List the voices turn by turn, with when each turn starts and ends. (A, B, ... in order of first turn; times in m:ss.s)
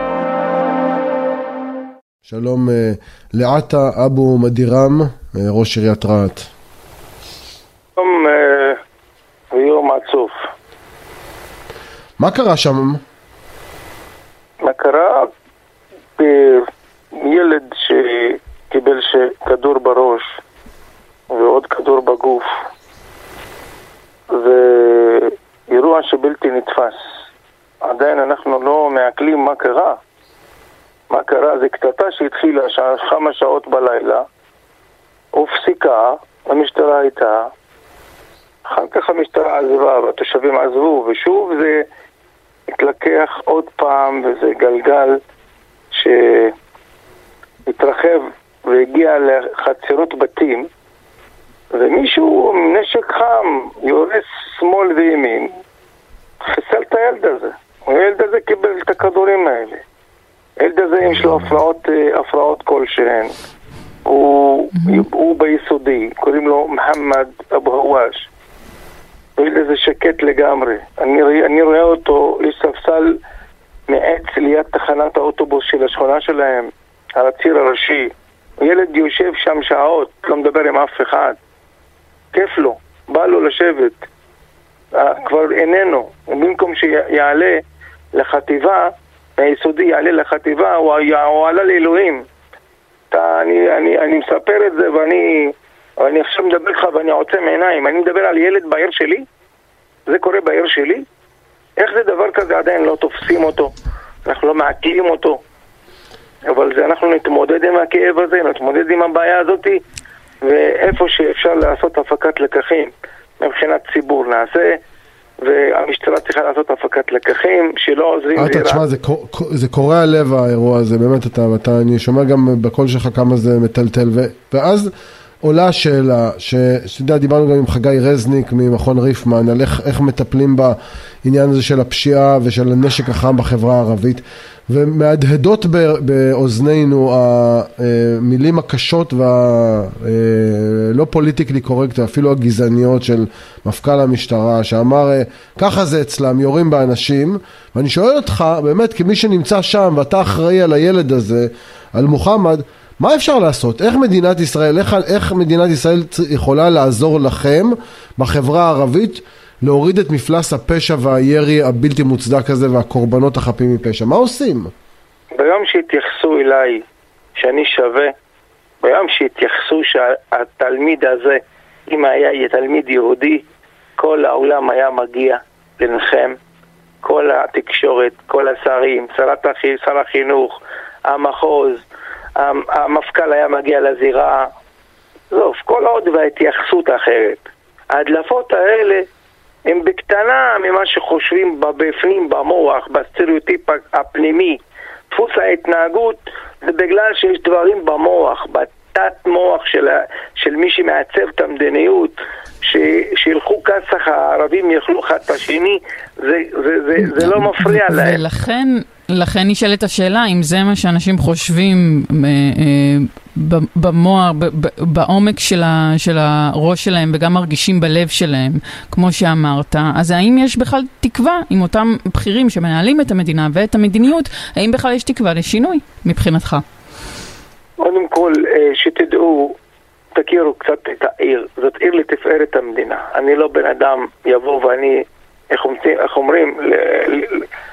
0:02.2-0:06.5 A
0:08.0-0:08.8 B
0:09.5-0:10.3 B
0:12.2-0:13.0 A
0:14.6-0:15.3 B
0:16.2-0:20.4 B
0:21.3-0:22.5 B
0:24.3-0:27.0 B
0:27.8-0:30.0 B
0:31.1-0:34.2 B
0:35.3-0:37.5 B
0:38.6-0:41.9 B
0:42.7-0:45.2 B
0:45.9-0:46.5 B
0:47.6-0:50.7 B
0:51.7-0:55.5 B
0:56.4-0:59.8 B
1:00.6-1:03.3 B
1:04.0-1:08.3 B
1:04.8-1:05.0 C
1:09.4-1:13.2 B
1:13.9-1:21.4 B
1:22.3-1:24.0 B
1:24.9-1:27.6 B
1:28.1-1:32.2 B
1:33.1-1:39.2 B
1:40.1-1:41.0 B
1:41.8-1:45.4 B
1:46.5-1:49.8 B
1:50.4-1:54.8 B
1:55.4-1:58.8 B
1:58.4-2:04.9 A
2:05.4-2:44.7 A
2:45.3-2:46.8 B
2:47.3-2:48.1 B
2:48.8-2:53.4 B
2:54.0-2:56.4 B
2:57.0-3:01.8 B
3:02.4-3:04.5 B
3:05.3-3:09.1 B
3:09.6-3:28.2 B
3:27.0-3:46.6 C
3:47.8-3:49.6 B
3:50.1-3:57.5 B